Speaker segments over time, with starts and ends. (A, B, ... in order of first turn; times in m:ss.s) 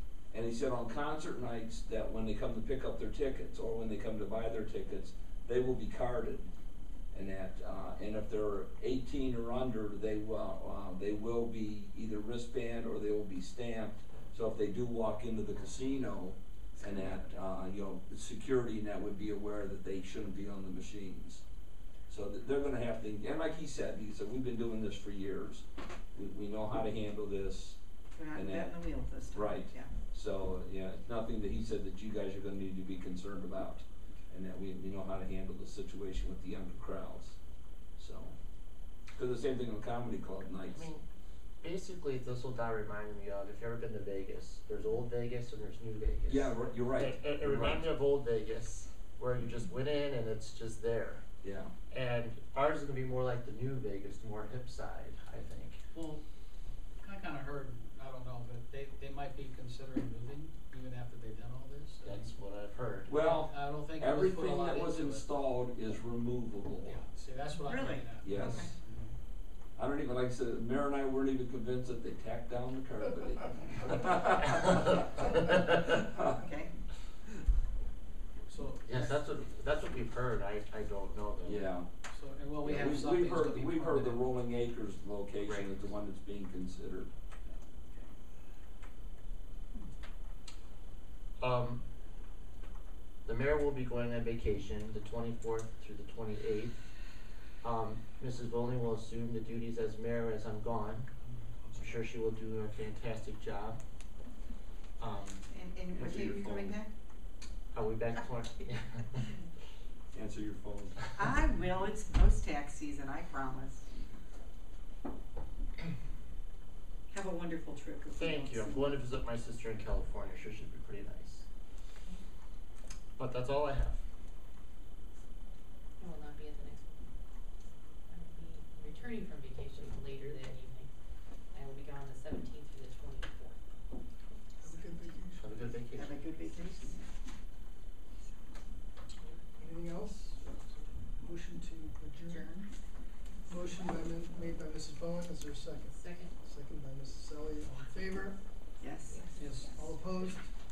0:00.3-0:06.5 A
0:07.1-0:21.4 A
0:22.1-0:27.8 A
0:28.1-0:29.9 B
0:28.3-0:28.7 A
0:29.3-0:37.4 A
0:38.0-0:38.3 A
0:39.1-0:40.9 A
0:40.7-0:41.0 C
0:41.6-0:51.2 C
0:46.3-0:47.9 A
0:51.4-0:51.7 A
0:51.9-0:55.8 C
0:55.9-0:56.2 D
0:57.0-1:02.3 D
1:02.0-1:03.2 C
1:03.1-1:07.0 A
1:03.2-1:05.3 D
1:06.8-1:09.1 D
1:07.6-1:08.7 B
1:08.2-1:08.7 A
1:09.8-1:15.3 A
1:15.9-1:16.4 A
1:16.3-1:16.7 B
1:18.5-1:19.2 D
1:18.8-1:21.7 C
1:21.4-1:21.9 A
1:22.1-1:24.2 D
1:22.6-1:27.1 A
1:25.4-1:25.8 C
1:31.4-1:31.8 C
1:33.2-1:36.9 C
1:37.6-1:41.1 C
1:41.2-1:42.0 D
1:41.7-1:43.8 C
1:45.0-1:45.4 C
1:45.5-1:46.9 B
1:45.9-1:46.8 A
1:47.7-1:49.2 C
1:50.1-1:51.1 A
1:51.1-1:53.9 B
1:57.1-1:58.9 B
1:58.1-2:01.4 C
2:03.2-2:04.0 C
2:06.0-2:07.1 E
2:08.1-2:10.9 E
2:11.5-2:13.6 E
2:14.6-2:15.7 F
2:14.6-2:15.1 E
2:15.4-2:16.3 C
2:15.9-2:17.0 B
2:19.6-2:22.5 F
2:23.4-2:24.0 E
2:23.5-2:28.4 F
2:25.9-2:26.3 E
2:28.8-2:29.3 B
2:29.1-2:30.2 E
2:29.4-2:29.7 D
2:29.8-2:30.4 F